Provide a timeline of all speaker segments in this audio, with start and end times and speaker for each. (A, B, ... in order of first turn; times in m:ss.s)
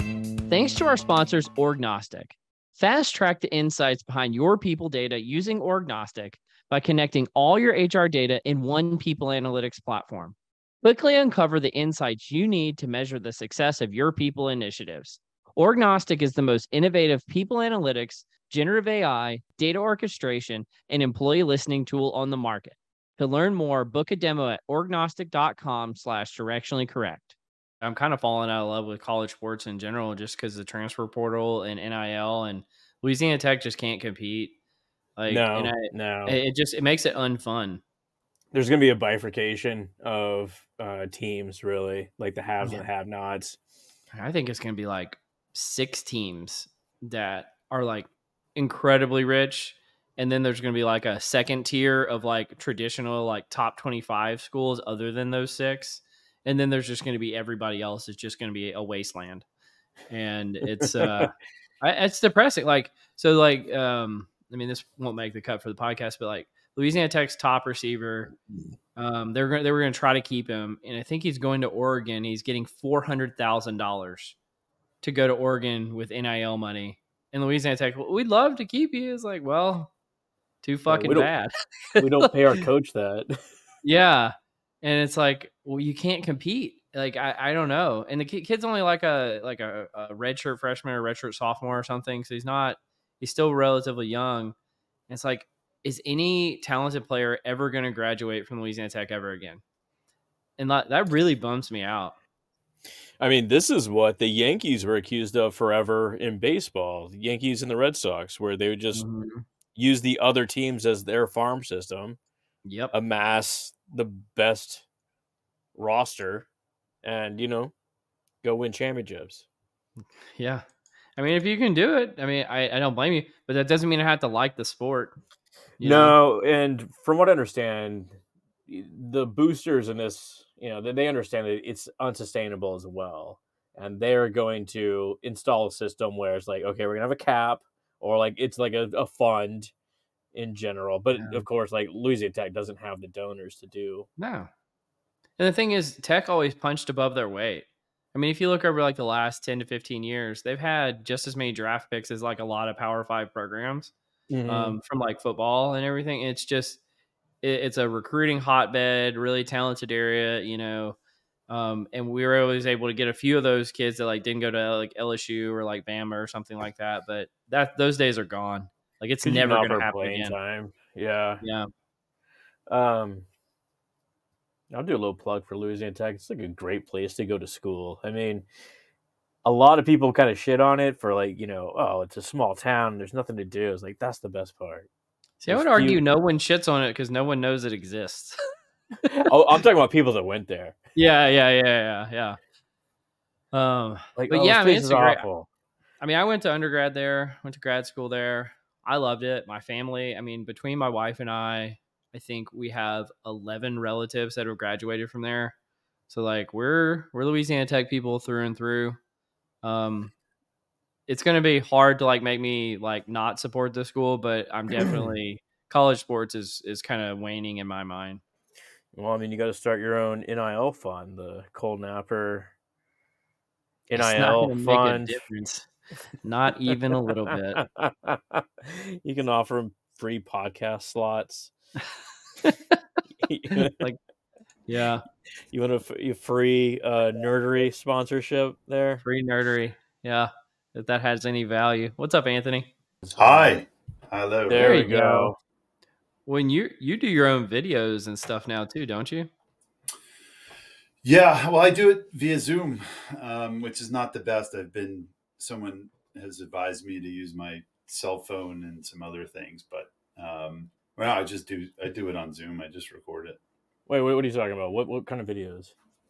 0:00.5-0:34.5 A
0:35.2-0:37.8 A
0:35.3-0:36.4 B
0:38.5-0:43.6 B
0:42.6-0:42.8 A
0:44.1-0:59.4 A
1:00.1-1:08.3 A
1:01.0-1:01.3 B
1:09.0-1:14.4 A
1:15.0-1:19.9 A
1:20.6-1:22.6 A
1:20.9-1:21.3 B
1:22.0-1:23.3 B
1:23.8-1:34.5 A
1:35.1-1:39.6 A
1:40.6-1:42.2 A
1:43.2-1:49.0 B
1:48.9-1:49.4 A
1:49.8-1:52.2 B
1:52.6-1:52.9 A
1:52.9-1:54.8 B
1:55.8-1:56.5 B
1:57.0-1:57.7 B
1:58.4-1:59.4 B
2:00.3-2:00.6 A
2:01.2-2:05.2 A
2:05.8-2:06.2 A
2:05.8-2:19.7 B
2:20.3-2:24.1 B
2:21.1-2:21.4 A
2:24.2-2:24.5 A
2:25.4-2:33.9 A
2:34.3-2:34.8 B
2:34.5-2:36.8 A
2:37.4-2:41.0 A
2:41.5-2:50.3 A
2:49.2-2:51.4 B
2:51.4-2:51.7 A
2:52.7-2:53.2 B
2:54.7-2:58.4 B
2:59.4-3:04.9 B
3:05.4-3:08.4 A
3:05.5-3:06.0 B
3:09.2-3:10.8 B
3:10.9-3:12.4 A
3:13.5-3:15.2 A
3:14.2-3:15.5 B
3:16.0-3:25.5 A
3:26.1-3:29.0 A
3:29.6-3:30.1 A
3:31.1-3:38.2 A
3:38.9-3:42.5 B
3:43.9-3:45.2 B
3:44.0-3:45.7 A
3:46.2-3:47.6 A
3:47.6-3:51.5 B
3:52.4-3:52.8 A
3:53.2-3:53.8 B
3:53.6-3:54.0 A
3:54.7-3:55.0 A
3:55.5-3:59.0 B
3:59.0-4:02.7 A
4:03.0-4:03.6 B
4:03.2-4:04.8 C
4:04.5-4:05.4 B
4:04.6-4:05.3 A
4:06.2-4:09.3 A
4:11.0-4:23.4 C
4:23.9-4:25.7 B